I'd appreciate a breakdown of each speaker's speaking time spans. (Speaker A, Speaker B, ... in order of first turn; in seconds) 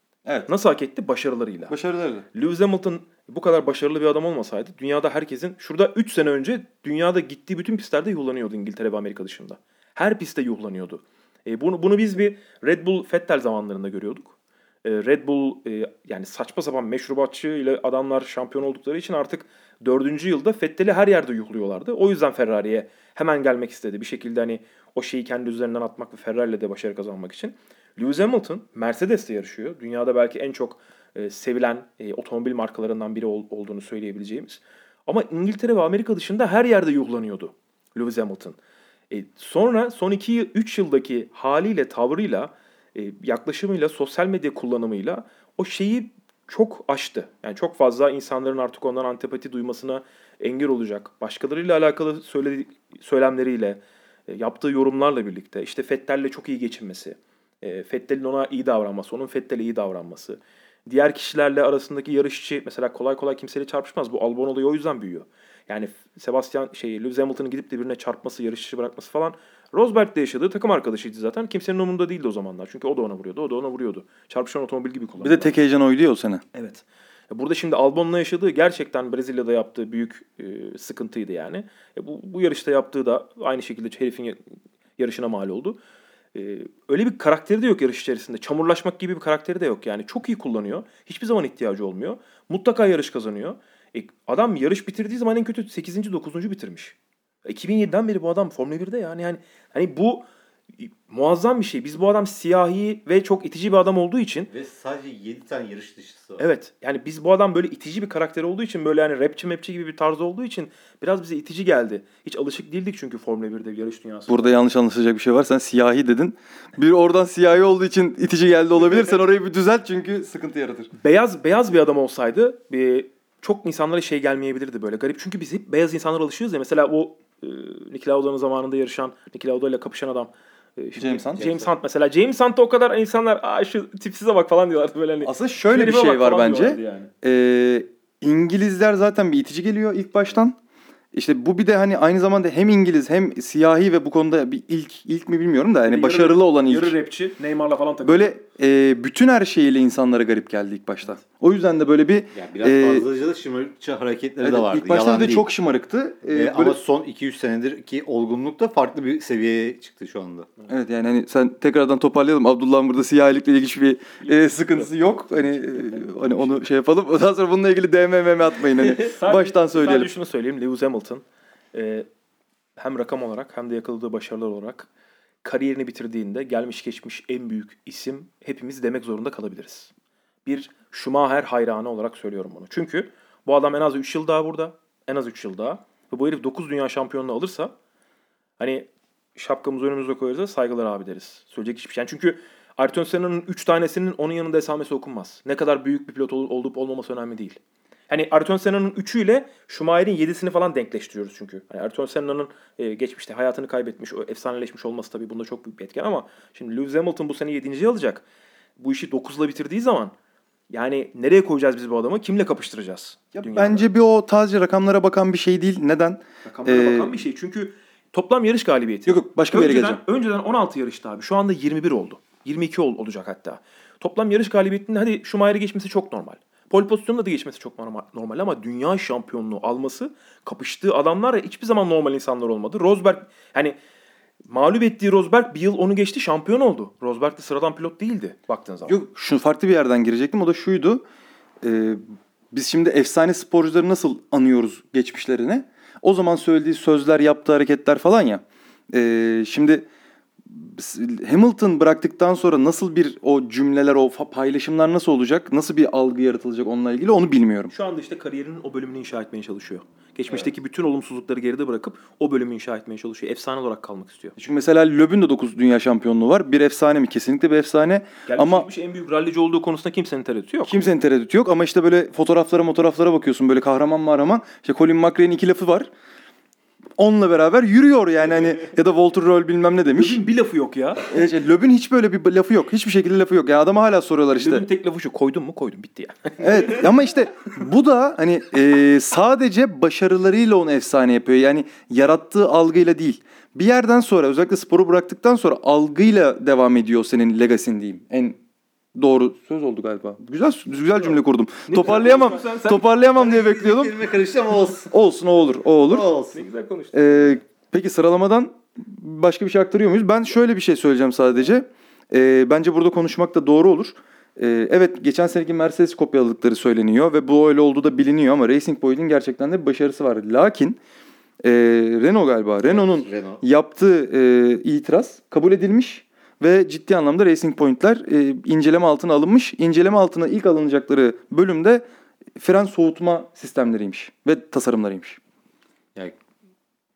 Speaker A: 0.5-1.8, 2.3-14.3, 14.8-38.6, 39.1-75.6, 76.5-84.4, 85.0-85.8, 86.3-100.2, 100.8-104.5, 106.4-114.6, 121.0-137.1, 145.8-148.3, 164.2-166.6, 168.8-172.1, 172.8-174.9, 175.4-179.9, 180.5-187.7, 188.6-208.2, 208.8-210.1, 210.7-213.9, 216.4-233.8, 234.4-239.0, 257.7-264.4, 268.3-270.8, 279.9-281.1, 284.3-286.9, 301.7-302.9, 306.3-307.4
Speaker B: 1.7-2.3, 75.2-76.4, 114.3-120.9, 131.0-131.4, 135.2-140.6, 141.1-147.0, 148.0-153.1, 154.4-156.8, 160.7-170.1, 213.3-217.2, 219.1-220.0, 238.9-241.0, 241.6-242.0, 242.5-249.9, 250.5-257.7, 264.4-268.7, 270.6-275.9, 277.0-280.2, 281.1-284.7, 286.4-298.4, 298.9-304.0, 304.9-306.1, 306.9-320.8, 321.4-331.8, 332.4-335.2
Speaker C: 104.5-106.4, 131.4-131.7, 152.3-155.5, 156.3-160.5, 303.2-304.9, 305.8-306.4, 322.6-323.4